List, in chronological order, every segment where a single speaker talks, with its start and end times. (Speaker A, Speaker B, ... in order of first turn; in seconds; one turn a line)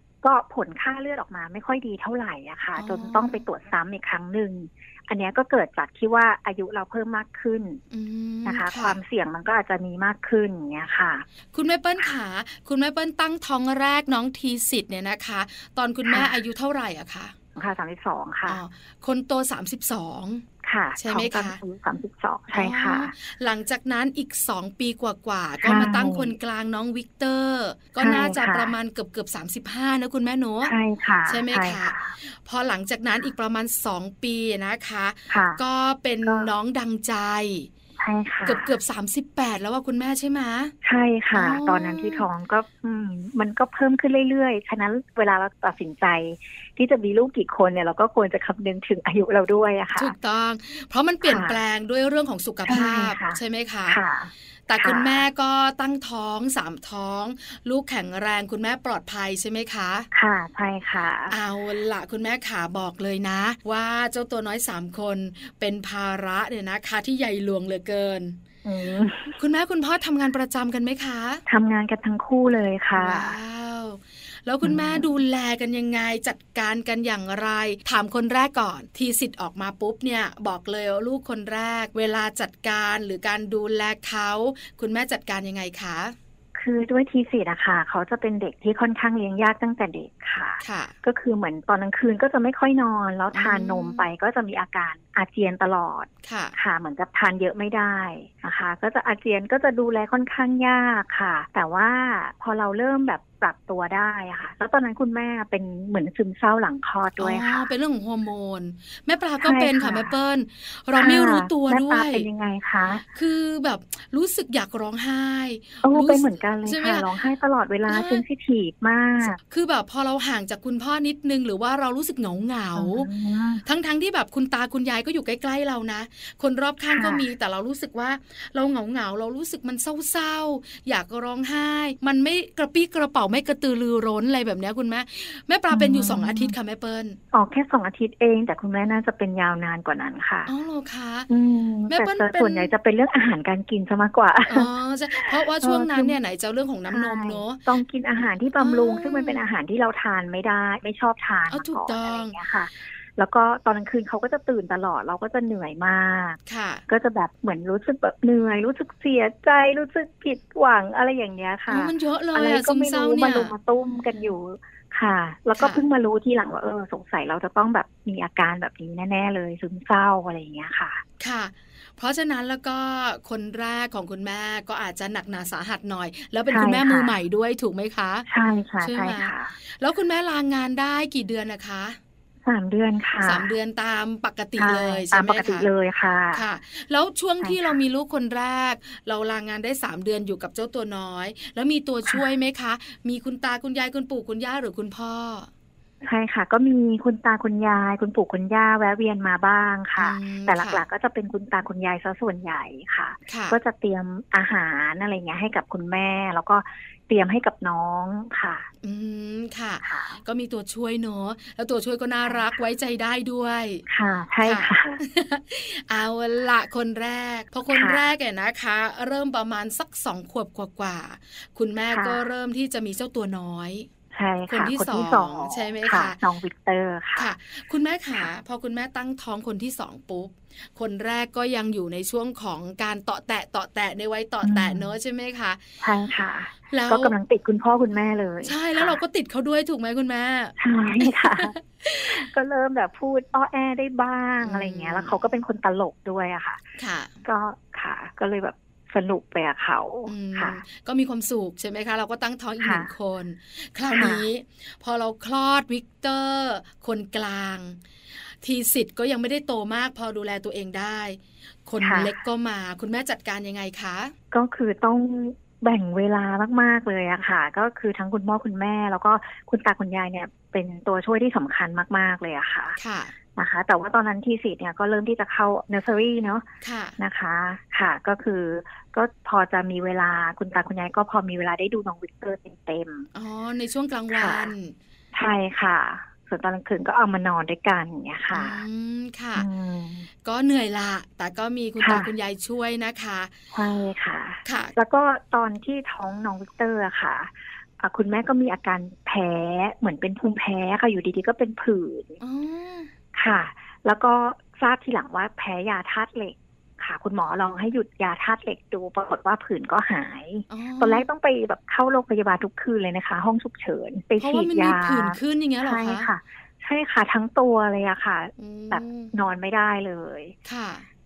Speaker A: 0.2-7.8
Speaker B: 2.8-3.4
Speaker B: 7.9-9.0
Speaker A: 8.5-11.3
Speaker B: 11.5-17.3
Speaker A: 16.1-16.4
Speaker A: 17.6-18.6
Speaker B: 18.5-20.4
Speaker A: 20.6-23.1
Speaker B: 21.0-21.6
Speaker B: 22.5-30.8
Speaker A: 25.6-26.4
Speaker A: 28.0-28.7
Speaker A: 30.6-32.2
Speaker B: 31.3-37.7
Speaker A: 35.3-35.6
Speaker A: 36.2-36.5
Speaker A: 38.0-38.7
Speaker B: 38.5-40.7
Speaker A: 40.8-50.1
Speaker B: 41.3-42.2
Speaker B: 50.0-54.0
Speaker A: 51.2-51.6
Speaker A: 52.7-55.3
Speaker B: 54.7-60.1
Speaker A: 60.1-61.4
Speaker B: 61.3-68.4
Speaker A: 68.7-69.4
Speaker B: 69.4-71.4
Speaker A: 71.5-73.4
Speaker B: 72.9-86.2
Speaker A: 74.6-75.1
Speaker A: 86.5-107.7
Speaker B: 90.6-90.9
Speaker B: 93.3-94.1
Speaker B: 96.2-96.6
Speaker B: 107.2-112.3
Speaker A: 109.4-110.1
Speaker A: 111.0-113.1
Speaker B: 113.1-117.1
Speaker A: 115.8-119.4
Speaker B: 117.9-118.2
Speaker B: 119.2-123.1
Speaker A: 122.8-123.6
Speaker B: 123.7-137.2
Speaker A: 126.9-127.2
Speaker A: 135.7-136.5
Speaker A: 137.3-140.5
Speaker B: 140.5-141.3
Speaker A: 141.3-146.2
Speaker B: 141.9-142.7
Speaker B: 144.5-147.6
Speaker A: 146.9-171.0
Speaker B: 148.6-149.4
Speaker B: 151.5-152.4
Speaker B: 156.5-156.8
Speaker B: 161.7-163.5
Speaker B: 165.6-165.8
Speaker B: 171.2-178.3
Speaker A: 176.5-177.1
Speaker A: 178.3-179.5
Speaker B: 178.8-182.0
Speaker A: 182.4-183.5
Speaker B: 183.2-185.7
Speaker A: 184.6-186.4
Speaker B: 186.3-195.5
Speaker A: 187.4-187.8
Speaker A: 196.0-208.7
Speaker B: 200.0-200.8
Speaker B: 203.3-203.6
Speaker B: 208.8-213.8
Speaker A: 209.8-210.2
Speaker A: 213.9-215.0
Speaker B: 214.4-223.9
Speaker A: 217.7-218.1
Speaker A: 221.9-222.2
Speaker A: 224.1-227.3
Speaker B: 224.5-226.2
Speaker B: 227.2-235.6
Speaker A: 234.4-234.9
Speaker A: 235.8-239.0
Speaker B: 236.7-237.2
Speaker B: 238.4-242.2
Speaker A: 240.6-246.6
Speaker B: 244.4-245.2
Speaker B: 246.8-247.1
Speaker A: 247.2-250.6
Speaker B: 250.1-257.8
Speaker A: 252.6-252.9
Speaker A: 253.9-254.2
Speaker B: 258.4-264.1
Speaker A: 261.8-262.1
Speaker A: 264.3-272.8
Speaker B: 272.8-273.1
Speaker A: 273.4-276.5
Speaker B: 276.6-277.0
Speaker A: 277.0-283.1
Speaker B: 283.1-284.7
Speaker A: 284.1-284.5
Speaker A: 285.1-288.6
Speaker B: 288.3-289.5
Speaker A: 289.4-290.1
Speaker B: 290.2-293.3
Speaker A: 291.8-292.1
Speaker A: 293.5-302.2
Speaker B: 294.4-294.7
Speaker B: 302.2-302.9
Speaker A: 303.1-320.4
Speaker B: 310.5-311.1
Speaker B: 314.2-316.1
Speaker B: 318.4-319.1
Speaker B: 320.5-320.9